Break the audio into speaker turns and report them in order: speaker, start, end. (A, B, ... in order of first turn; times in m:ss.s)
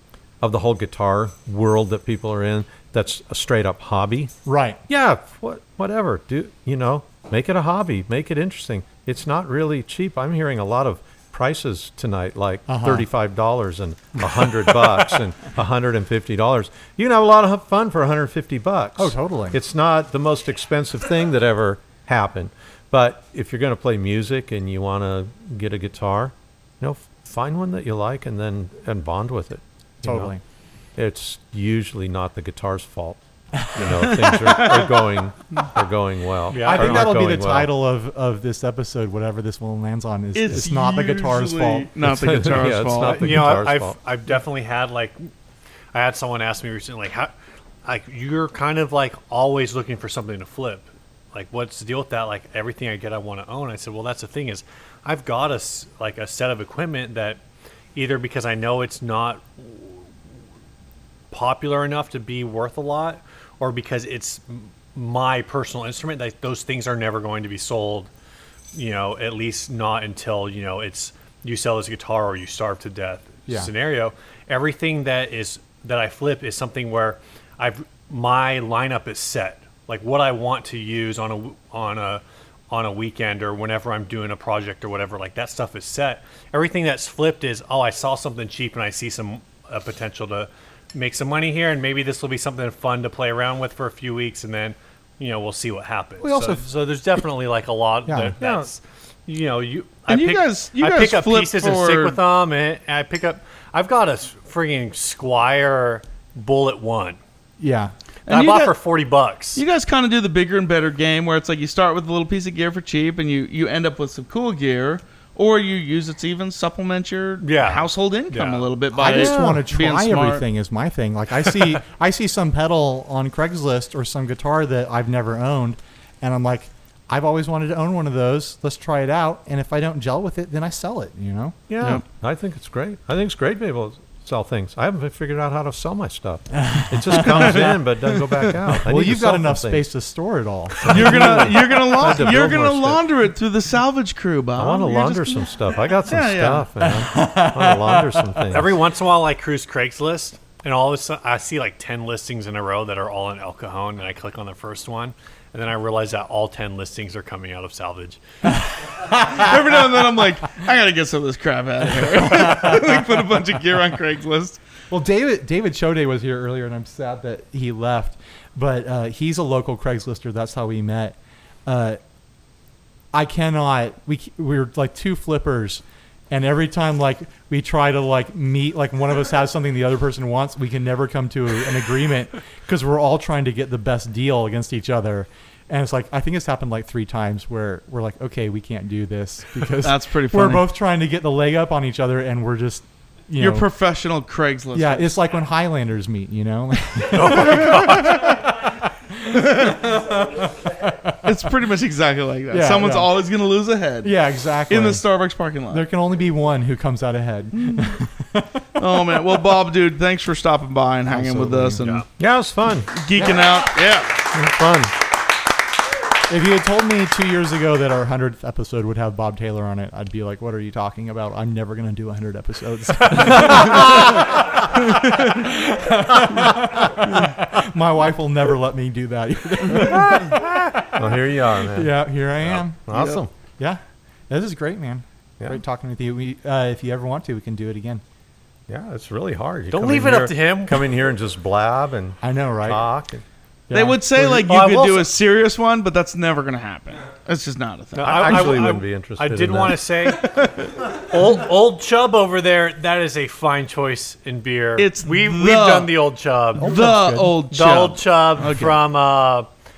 0:00.4-0:04.3 A
0:04.5-0:04.8 B
0:04.9-0:30.3 A
0:12.7-0:13.1 B
0:19.0-0:19.6 B
0:30.0-0:30.4 B
0:31.0-0:33.2 A
0:33.7-0:37.7 A
0:33.8-0:34.6 B
0:36.5-0:37.1 C
0:36.6-0:41.9 B
0:40.3-0:43.2 D
0:42.0-0:44.0 A
0:43.1-0:45.3 C
0:45.9-0:47.3 C
0:47.8-0:57.4 C
0:58.0-1:00.0 C
1:01.3-1:08.1 C
1:08.7-1:47.2 C
1:36.2-1:36.6 B
1:38.0-1:38.4 B
1:38.4-1:38.7 A
1:40.1-1:42.2 D
1:47.6-1:47.9 B
1:48.3-1:48.8 D
1:48.3-1:49.6 C
1:49.6-2:00.4 D
1:57.4-1:59.2 C
1:59.0-2:11.6 B
2:11.7-2:19.9 A
2:16.8-2:17.7 B
2:18.8-2:21.6 B
2:20.8-2:23.0 A
2:20.9-2:26.7 D
2:24.6-2:28.8 A
2:26.9-2:28.4 B
2:28.5-2:38.2 C
2:39.2-2:44.6 D
2:42.4-2:42.8 B
2:44.9-2:52.0 B
2:53.1-3:13.7 B
3:09.8-3:10.7 D
3:13.4-3:15.2 D
3:14.7-3:18.4 B
3:17.1-3:18.2 C
3:19.3-3:20.2 B
3:20.9-3:21.3 B
3:21.2-3:24.1 D
3:22.5-3:23.1 B
3:24.0-3:25.0 B
3:24.7-3:25.8 D
3:25.7-3:28.6 B
3:27.5-3:27.9 D
3:28.8-3:32.1 D
3:31.1-3:32.0 B
3:32.2-3:32.9 A
3:32.9-3:34.1 D
3:33.2-3:33.6 B
3:34.3-3:34.9 A
3:36.3-3:50.8 B
3:49.8-3:53.3 A
3:51.6-3:53.0 B
3:53.6-3:58.0 B
3:58.7-4:03.2 A
3:59.7-4:00.9 C
4:02.2-4:02.9 B
4:03.7-4:04.4 B
4:03.7-4:08.5 D
4:04.3-4:05.1 C
4:08.0-4:19.5 C
4:08.0-4:10.1 A
4:14.8-4:16.0 D
4:16.6-4:17.4 B
4:16.6-4:18.8 D